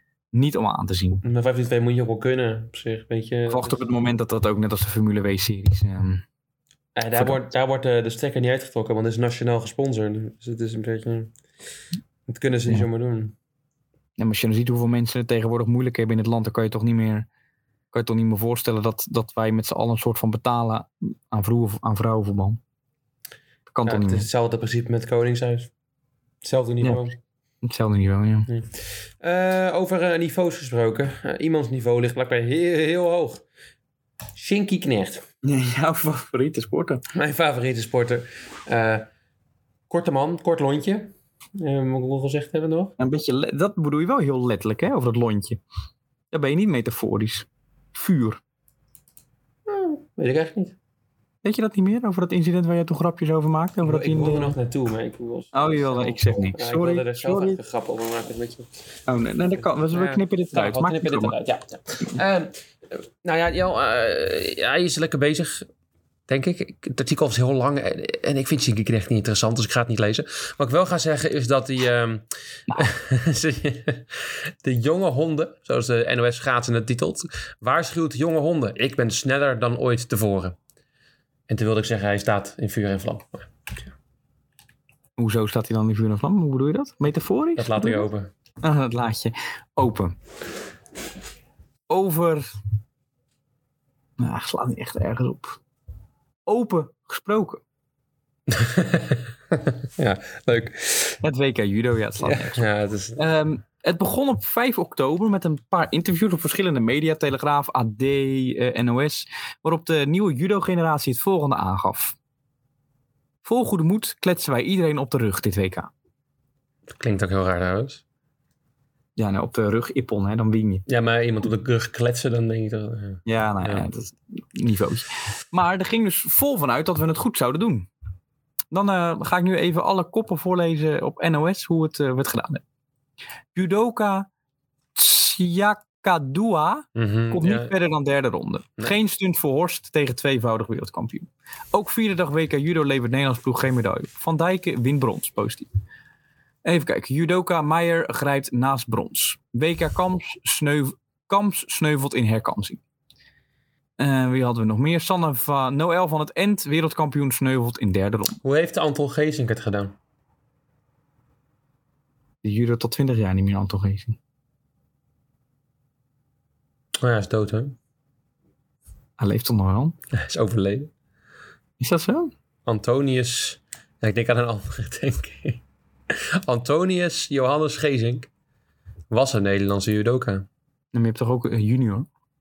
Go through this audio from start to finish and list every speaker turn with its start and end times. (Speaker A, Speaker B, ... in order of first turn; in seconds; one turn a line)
Speaker A: 0.3-1.2
Speaker B: 1.2-3.9
Speaker A: 3.5-6.2
Speaker B: 7.0-11.3
Speaker A: 7.1-7.4
Speaker B: 12.3-13.3
Speaker A: 14.2-17.3
Speaker A: 17.9-22.6
Speaker A: 23.7-24.3
Speaker B: 23.9-25.7
Speaker B: 26.4-27.2
Speaker A: 27.6-28.5
Speaker B: 28.5-33.4
Speaker B: 34.4-35.2
Speaker A: 35.4-37.0
Speaker B: 37.1-39.1
Speaker B: 39.9-42.9
Speaker A: 43.0-45.6
Speaker A: 46.3-48.4
Speaker B: 49.7-50.7
Speaker A: 51.4-54.6
Speaker B: 53.8-58.7
Speaker A: 55.5-57.6
Speaker A: 59.1-61.4
Speaker B: 59.9-62.5
Speaker B: 63.2-65.7
Speaker B: 66.3-80.6
Speaker B: 81.5-83.5
Speaker A: 85.2-88.1
Speaker B: 87.5-88.3
Speaker A: 88.6-90.1
Speaker A: 91.9-92.5
Speaker A: 94.2-95.6
Speaker A: 96.5-97.6
Speaker B: 98.5-101.2
Speaker A: 101.2-112.2
Speaker B: 102.2-103.2
Speaker A: 113.4-115.9
Speaker B: 117.0-118.0
Speaker A: 119.2-120.8
Speaker B: 120.9-123.9
Speaker A: 123.2-127.9
Speaker A: 128.7-132.6
Speaker A: 133.5-134.3
Speaker A: 134.9-145.7
Speaker B: 136.9-137.7
Speaker A: 146.6-152.8
Speaker A: 154.0-158.4
Speaker B: 158.4-159.9
Speaker A: 162.4-164.2
Speaker B: 167.0-167.8
Speaker A: 169.2-169.9
Speaker B: 170.1-170.9
Speaker A: 171.8-172.3
Speaker B: 172.7-175.6
Speaker B: 176.4-178.3
Speaker B: 179.1-180.4
Speaker A: 180.9-182.1